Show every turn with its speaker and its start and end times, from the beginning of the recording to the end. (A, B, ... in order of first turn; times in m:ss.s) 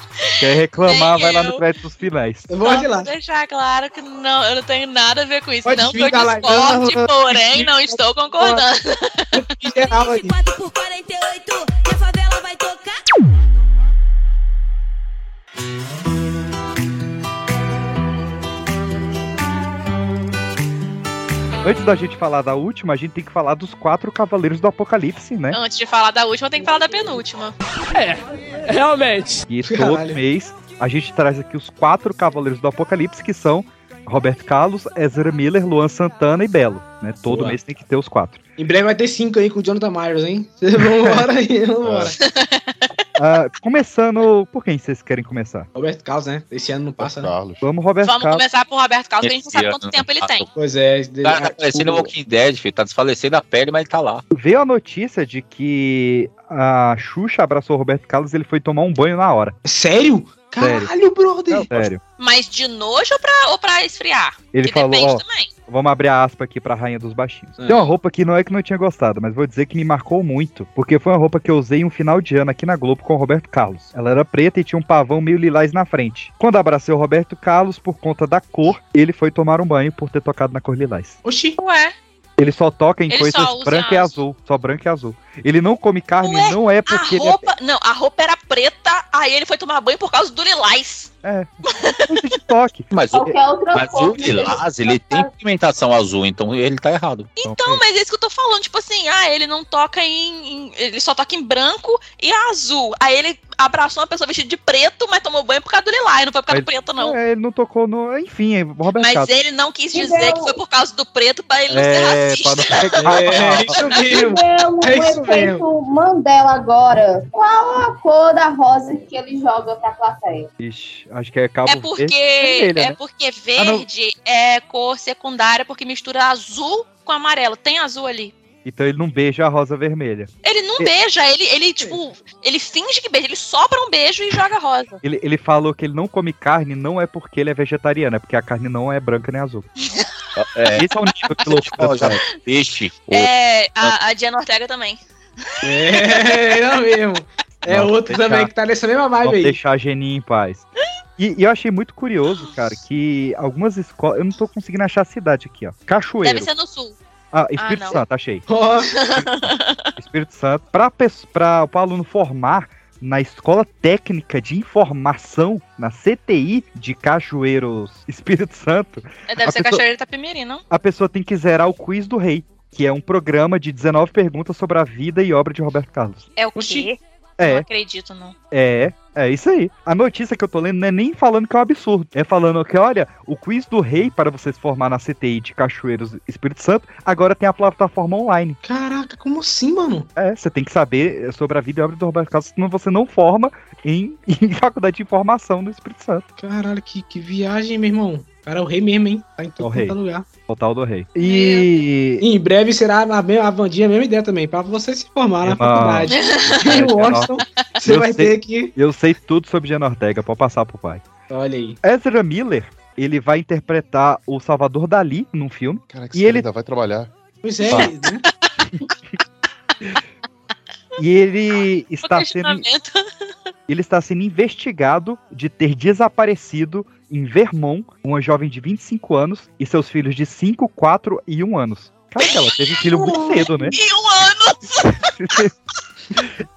0:00.4-0:02.5 A
0:00.8-0:01.6 B
0:02.5-0:03.1 C
0:02.6-0:09.4 B
0:05.6-0:07.6 C
0:09.3-0:10.4 C
0:09.9-0:12.9 D
0:21.6-0:25.6 A
0:25.5-0:27.5 B
0:29.5-0:38.4 A
0:29.6-0:30.2 C
0:37.2-0:37.6 C
0:38.6-0:42.2 C
0:41.8-0:42.1 E
0:42.3-0:42.7 B
0:43.2-0:45.7 A
0:45.7-0:47.3 C
0:47.0-0:47.6 E
0:47.6-0:48.4 A
0:48.0-0:50.4 B
0:49.2-0:50.5 F
0:50.6-0:52.1 C
0:51.2-0:54.2 F
0:54.3-0:59.6 A
0:59.6-1:01.9 C
1:00.6-1:00.9 A
1:01.5-1:02.0 A
1:02.2-1:05.5 B
1:04.5-1:21.2 A
1:07.6-1:07.9 C
1:21.2-1:21.6 C
1:21.6-1:21.9 B
1:22.4-1:27.5 A
1:23.1-1:24.2 B
1:26.2-1:31.1 B
1:31.2-1:31.5 A
1:31.6-1:32.0 B
1:32.0-1:32.9 A
1:32.9-1:37.3 F
1:33.1-1:35.3 G
1:37.4-1:47.2 B
1:37.4-1:37.8 A
1:46.5-1:49.3 A
1:49.0-1:53.9 B
1:49.9-1:50.5 G
1:51.7-1:53.8 A
1:53.0-1:55.6 C
1:54.0-2:00.5 G
2:00.6-2:03.0 A
2:01.6-2:08.3 B
2:03.6-2:03.8 A
2:08.6-2:10.9 A
2:10.4-2:15.0 B
2:15.0-2:19.7 A
2:20.4-2:20.9 F
2:20.8-2:22.2 A
2:21.4-2:24.0 F
2:23.1-2:25.0 B
2:25.5-2:26.4 B
2:25.6-2:29.6 C
2:27.6-2:28.5 A
2:29.2-2:30.7 A
2:31.2-2:36.5 A
2:36.2-2:37.0 B
2:37.3-2:38.4 A
2:37.6-2:38.0 B
2:38.5-2:38.9 C
2:38.9-2:39.9 B
2:39.4-2:49.8 A
2:49.3-2:50.6 B
2:50.7-2:56.2 A
2:56.4-2:58.3 B
2:56.5-2:56.9 C
2:57.4-2:57.6 A
2:58.5-3:08.6 A
3:08.6-3:10.1 C
3:10.2-3:16.2 A
3:16.4-3:20.2 C
3:19.6-3:20.0 A
3:20.5-3:22.2 A
3:21.2-3:21.7 B
3:22.2-3:28.7 C
3:25.4-3:27.3 A
3:26.1-3:26.7 B
3:27.8-3:31.0 A
3:31.3-3:31.8 C
3:31.8-3:36.4 A
3:35.9-3:37.1 E
3:37.4-3:38.2 C
3:41.0-3:42.6 A
3:42.0-3:43.0 B
3:43.7-3:53.8 A
3:52.2-3:52.5 B
3:52.9-3:53.6 G
3:53.7-3:55.0 B
3:55.2-3:55.5 A